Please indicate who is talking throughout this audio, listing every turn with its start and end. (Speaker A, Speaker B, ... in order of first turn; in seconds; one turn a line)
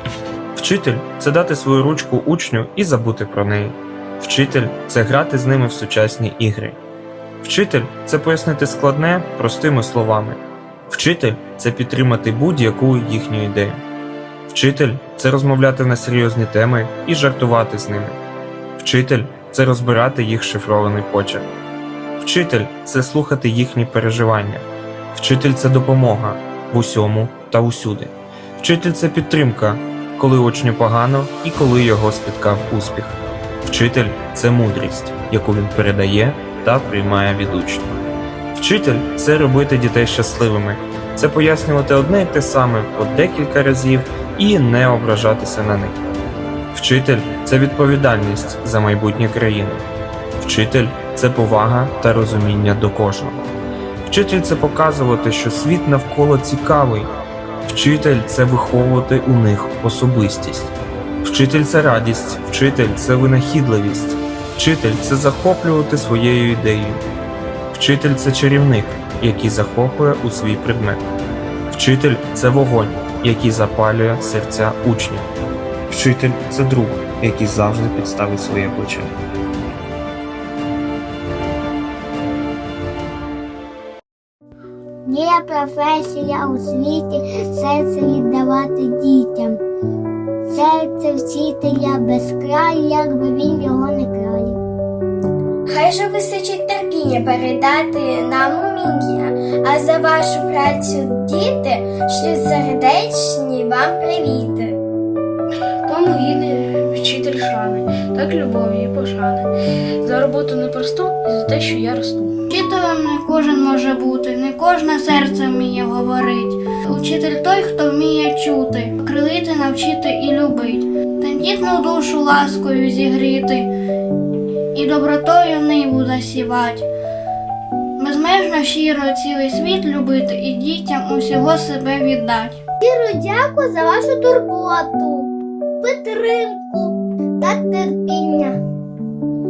Speaker A: 0.6-6.8
Speaker A: 7.4-13.8
Speaker A: 14.5-18.2
Speaker A: 18.8-21.5
Speaker A: 22.2-37.9
Speaker A: 38.5-46.0
Speaker A: 46.7-49.8
Speaker A: 50.4-53.5
Speaker A: 54.1-57.1
Speaker A: 57.7-67.0
Speaker A: 67.7-71.0
Speaker A: 71.7-75.3
Speaker A: 75.9-79.1
Speaker B: 85.1-89.6
Speaker B: 90.5-94.6
Speaker C: 95.7-104.8
Speaker D: 105.8-109.5
Speaker D: 110.0-112.3
Speaker E: 112.5-123.7
Speaker E: 124.7-126.9
Speaker E: 128.0-132.6
Speaker B: 132.8-135.3
Speaker B: 135.8-138.6